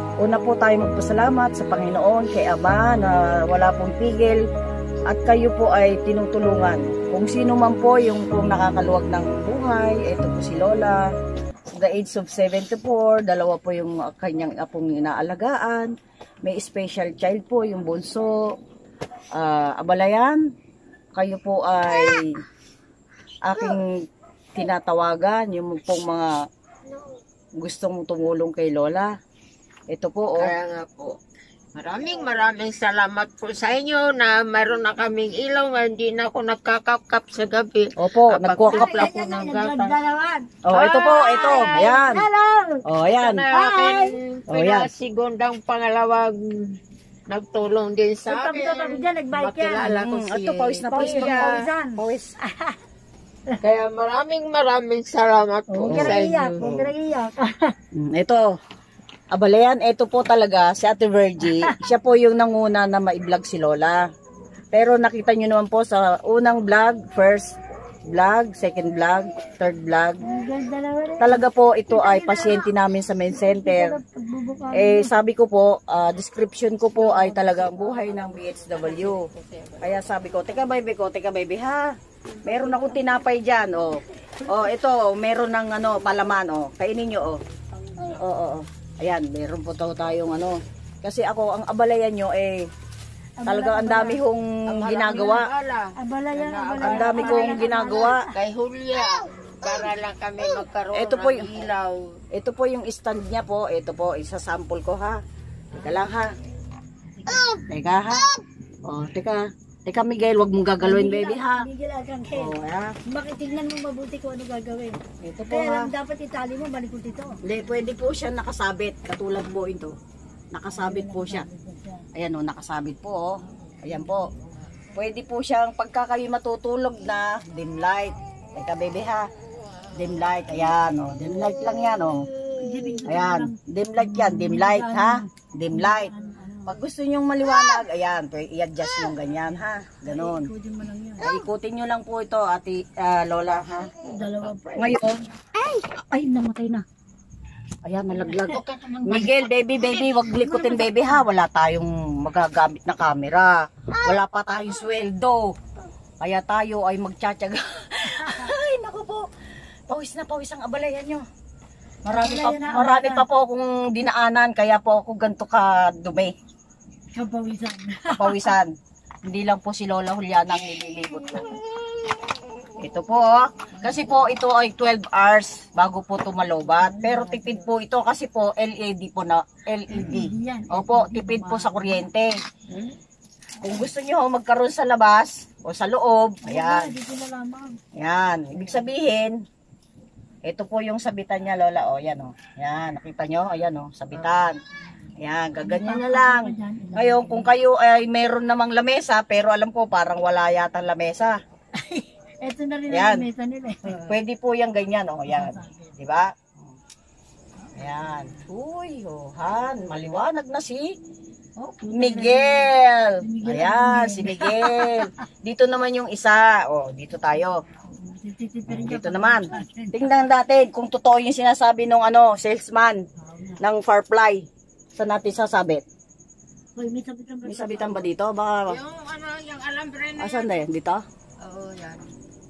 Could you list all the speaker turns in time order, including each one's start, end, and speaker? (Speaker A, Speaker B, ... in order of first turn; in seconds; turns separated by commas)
Speaker A: 0.2-4.4, Speaker A: 5.1-11.0, Speaker A: 11.7-15.9, Speaker A: 16.4-18.4, Speaker A: 19.4-20.4, Speaker A: 21.2-22.3, Speaker A: 23.4-23.9, Speaker A: 24.6-26.3, Speaker A: 27.6-29.1, Speaker A: 29.9-30.5, Speaker B: 30.4-31.1, Speaker B: 31.8-40.0, Speaker A: 38.0-39.1, Speaker C: 38.7-42.8, Speaker A: 40.7-42.3, Speaker B: 40.7-41.8, Speaker A: 42.9-43.5, Speaker B: 43.0-46.8, Speaker C: 43.5-44.2, Speaker A: 44.5-44.9, Speaker B: 47.3-51.6, Speaker C: 48.3-49.9, Speaker A: 49.9-52.3, Speaker C: 50.9-52.8, Speaker B: 53.6-56.6, Speaker C: 55.7-57.7, Speaker A: 55.9-56.9, Speaker A: 58.0-58.5, Speaker A: 59.3-64.0, Speaker C: 61.5-61.8, Speaker A: 64.7-67.5, Speaker A: 68.1-70.2, Speaker C: 70.2-72.7, Speaker A: 71.2-74.0, Speaker C: 73.3-75.1, Speaker A: 74.7-79.2, Speaker C: 77.0-78.2, Speaker B: 78.3-80.6, Speaker A: 79.8-81.9, Speaker A: 82.5-87.4, Speaker A: 88.2-92.7, Speaker C: 93.4-94.2, Speaker A: 93.5-95.5, Speaker B: 94.7-102.2, Speaker C: 96.0-98.2, Speaker A: 96.8-98.2, Speaker A: 100.9-101.5, Speaker A: 102.3-105.2, Speaker A: 105.7-106.3, Speaker A: 107.5-108.3, Speaker A: 108.9-111.7, Speaker C: 110.8-112.5, Speaker A: 112.3-112.9, Speaker C: 113.1-115.0, Speaker A: 115.2-115.9, Speaker C: 115.5-117.4, Speaker A: 117.4-119.9, Speaker A: 120.5-121.5, Speaker C: 120.8-122.0, Speaker A: 122.2-124.3, Speaker B: 123.5-124.7, Speaker A: 125.0-129.3, Speaker A: 129.9-132.3, Speaker C: 132.5-136.8, Speaker A: 133.1-136.1, Speaker A: 136.7-140.5, Speaker C: 140.1-141.4, Speaker A: 141.2-143.9, Speaker C: 144.0-145.0, Speaker A: 144.8-145.2, Speaker C: 145.6-146.8, Speaker A: 147.8-155.5, Speaker B: 148.2-150.5, Speaker A: 156.2-159.2, Speaker A: 159.9-161.2, Speaker A: 162.1-166.3, Speaker C: 162.1-163.2, Speaker C: 167.2-168.5, Speaker A: 168.2-168.7, Speaker A: 169.3-171.6, Speaker A: 172.8-182.3, Speaker C: 176.7-177.7, Speaker C: 179.9-182.0, Speaker A: 183.6-186.9, Speaker C: 186.5-187.8, Speaker A: 188.0-189.4, Speaker A: 190.4-194.6, Speaker A: 195.2-201.4, Speaker C: 195.6-197.6, Speaker C: 201.8-204.1, Speaker A: 202.9-203.3, Speaker A: 203.9-206.7, Speaker C: 205.3-205.9, Speaker C: 207.6-208.0, Speaker A: 207.8-210.9, Speaker C: 211.6-215.1, Speaker A: 211.9-217.6, Speaker C: 217.9-220.0, Speaker A: 218.7-223.0, Speaker C: 223.3-223.6, Speaker A: 223.6-225.8, Speaker C: 226.8-228.1, Speaker A: 227.4-228.8, Speaker B: 228.7-230.6, Speaker A: 230.2-231.0, Speaker B: 231.4-232.1